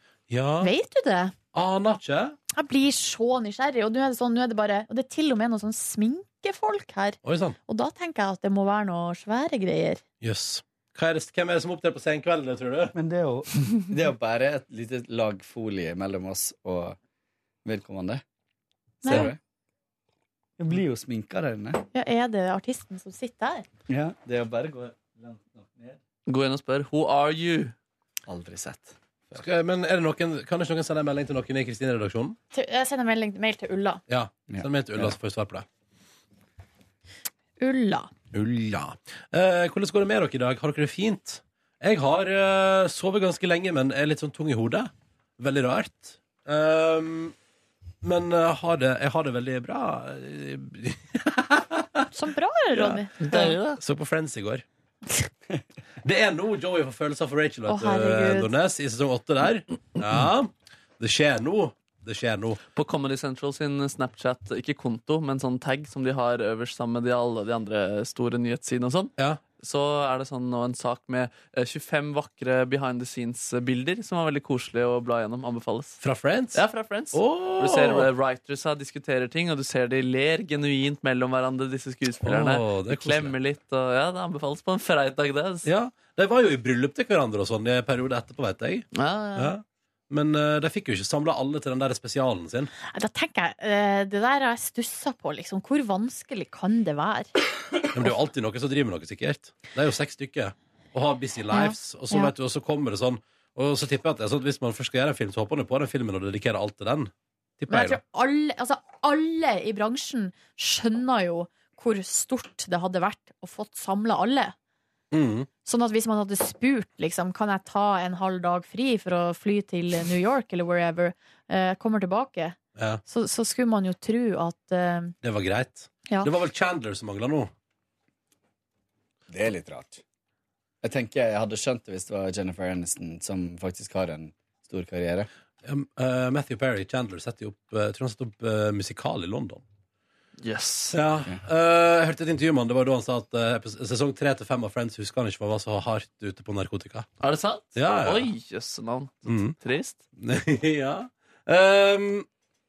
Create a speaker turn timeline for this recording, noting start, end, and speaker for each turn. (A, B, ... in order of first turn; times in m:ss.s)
0:00.3-0:00.7 A
0:00.6-0:01.3 B
0:01.5-0:02.4 A
0:02.5-0:10.0 B
0:07.2-0:07.6 A
0:10.2-0:12.9 A
0:12.9-0:17.0 C
0:17.6-0:18.2 C
0:19.0-0:19.3 B
0:19.0-0:19.4 C
0:20.6-0:21.8 C
0:21.9-0:23.7 B
0:23.9-0:26.0 C
0:26.3-0:27.7 D
0:28.3-0:29.4 C
0:29.4-0:32.4 A
0:32.5-0:34.0 B
0:34.1-0:35.6 A
0:34.5-0:35.2 C
0:37.6-0:38.1 B
0:38.3-0:47.4 A
0:48.0-0:52.1 A
0:52.1-0:53.6 B
0:52.7-0:54.6 A
0:53.2-0:53.8 D
0:56.0-1:02.6 A
0:57.7-0:58.5 B
1:02.8-1:16.0 D
1:16.0-1:18.1 A
1:16.5-1:25.7 D
1:22.2-1:23.4 A
1:25.6-1:32.7 A
1:28.9-1:29.5 D
1:32.9-1:37.3 B
1:37.9-1:48.0 A
1:41.5-1:42.3 B
1:47.7-1:54.5 B
1:55.1-1:55.5 A
1:55.6-2:05.1 B
2:02.8-2:03.0 A
2:05.2-2:07.5 A
2:09.3-2:10.0 C
2:10.8-2:15.3 C
2:15.6-2:19.6 A
2:20.4-2:21.0 D
2:20.9-2:27.1 A
2:27.2-2:30.0 D
2:27.8-2:28.3 A
2:29.3-2:29.6 A
2:30.2-2:32.3 A